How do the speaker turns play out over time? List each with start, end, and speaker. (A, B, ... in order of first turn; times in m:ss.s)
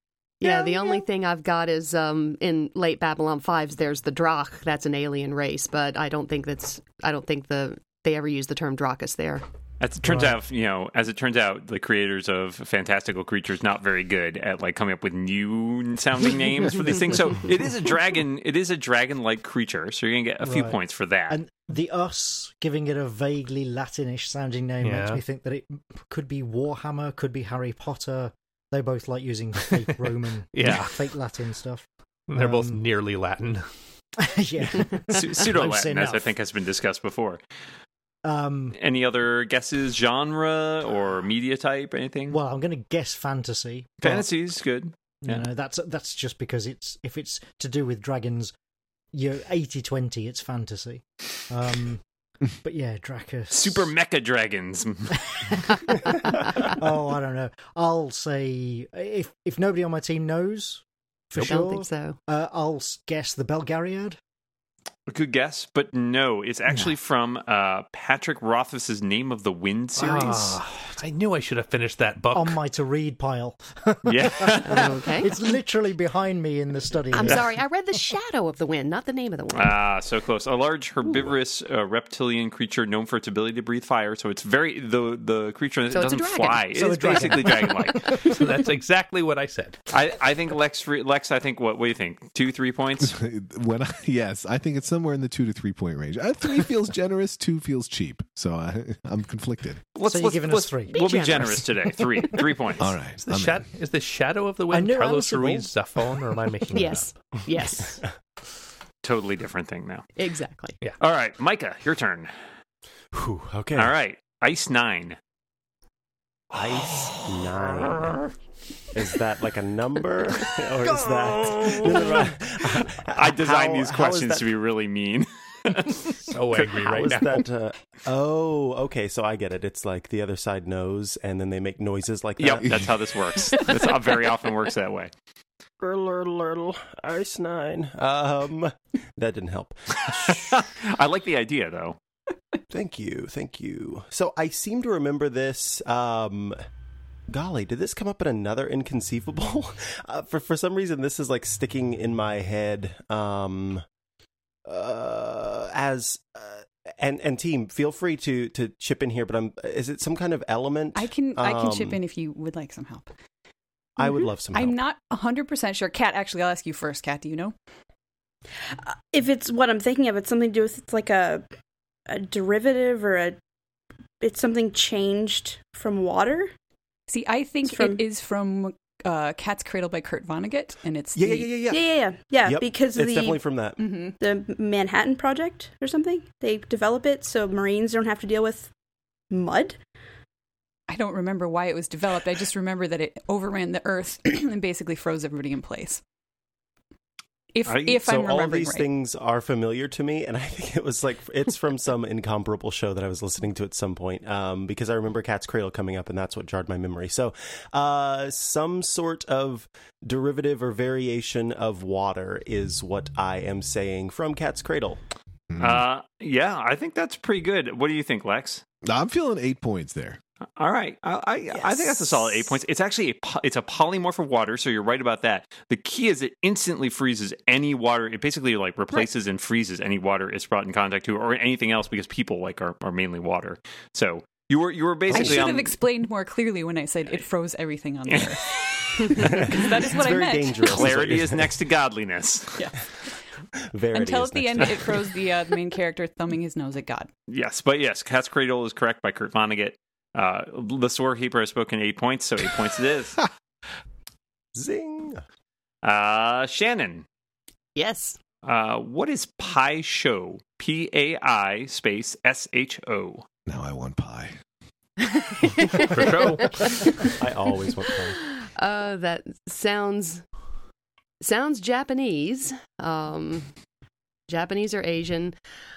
0:00.4-0:09.4 A
0:00.4-0:01.0 B
0:09.8-0:21.4 C
0:10.0-0:10.4 D
0:20.4-0:20.8 D
0:21.3-0:32.8 D
0:24.8-0:25.2 E
0:30.5-0:31.1 E
0:32.3-0:33.6 E
0:34.2-0:36.3 D
0:35.1-0:37.4 C
0:38.2-0:38.8 D
0:38.7-0:42.4 C
0:42.3-0:44.2 D
0:44.0-0:45.4 C
0:45.2-0:48.5 D
0:49.1-0:52.0 D
0:52.6-0:53.9 D
0:53.5-0:55.7 C
0:56.0-1:04.2 D
1:01.4-1:02.2 A
1:05.1-1:10.6 C
1:10.0-1:12.6 E
1:12.3-1:17.5 D
1:14.0-1:14.9 C
1:14.7-1:15.3 A
1:17.1-1:19.8 A
1:19.5-1:28.2 C
1:25.9-1:26.8 A
1:26.7-1:27.9 D
1:28.1-1:29.8 E
1:29.9-1:33.2 C
1:33.0-1:39.8 F
1:40.0-1:42.9 C
1:40.0-1:40.9 D
1:40.9-1:41.7 A
1:42.8-1:43.7 F
1:43.2-1:47.1 E
1:44.7-1:45.7 D
1:46.7-1:48.0 A
1:49.0-1:50.1 C
1:50.2-1:50.8 A
1:51.0-1:52.3 C
1:53.1-1:53.9 G
1:53.8-1:55.2 C
1:56.5-1:58.2 G
1:58.9-2:04.5 G
2:01.2-2:02.3 C
2:02.8-2:06.8 C
2:06.3-2:07.4 E
2:06.8-2:12.9 G
2:12.4-2:15.1 C
2:15.8-2:20.5 G
2:20.0-2:22.0 C
2:22.7-2:26.6 G
2:27.3-2:33.8 G
2:34.7-2:42.0 G
2:40.9-2:43.1 H
2:44.0-2:44.8 G
2:44.0-2:44.3 B
2:44.5-2:47.6 H
2:49.1-2:51.4 B
2:52.1-2:53.4 B
2:54.2-2:56.5 B
2:57.1-3:01.5 H
2:57.6-2:58.0 B
3:01.1-3:01.9 G
3:01.7-3:03.4 B
3:02.4-3:03.8 G
3:03.8-3:04.2 H
3:04.2-3:08.7 B
3:09.3-3:09.8 B
3:10.9-3:16.0 H
3:17.5-3:18.9 H
3:17.7-3:17.9 C
3:17.9-3:35.0 G
3:35.5-3:35.8 F
3:35.6-3:38.6 C
3:38.8-3:40.2 F
3:40.6-3:55.8 C
3:55.1-3:55.4 G
3:55.1-4:01.0 H
3:59.2-4:01.6 G
4:00.6-4:02.7 C
4:03.7-4:04.9 G
4:03.9-4:07.1 H
4:07.3-4:13.2 C
4:14.6-4:15.2 G
4:15.8-4:17.0 C
4:17.7-4:18.2 A
4:18.4-4:23.3 C
4:23.4-4:24.4 F
4:25.4-4:27.1 A
4:25.8-4:26.7 E
4:27.2-4:28.2 G
4:27.9-4:30.2 A
4:31.2-4:33.5 A
4:34.3-4:35.4 A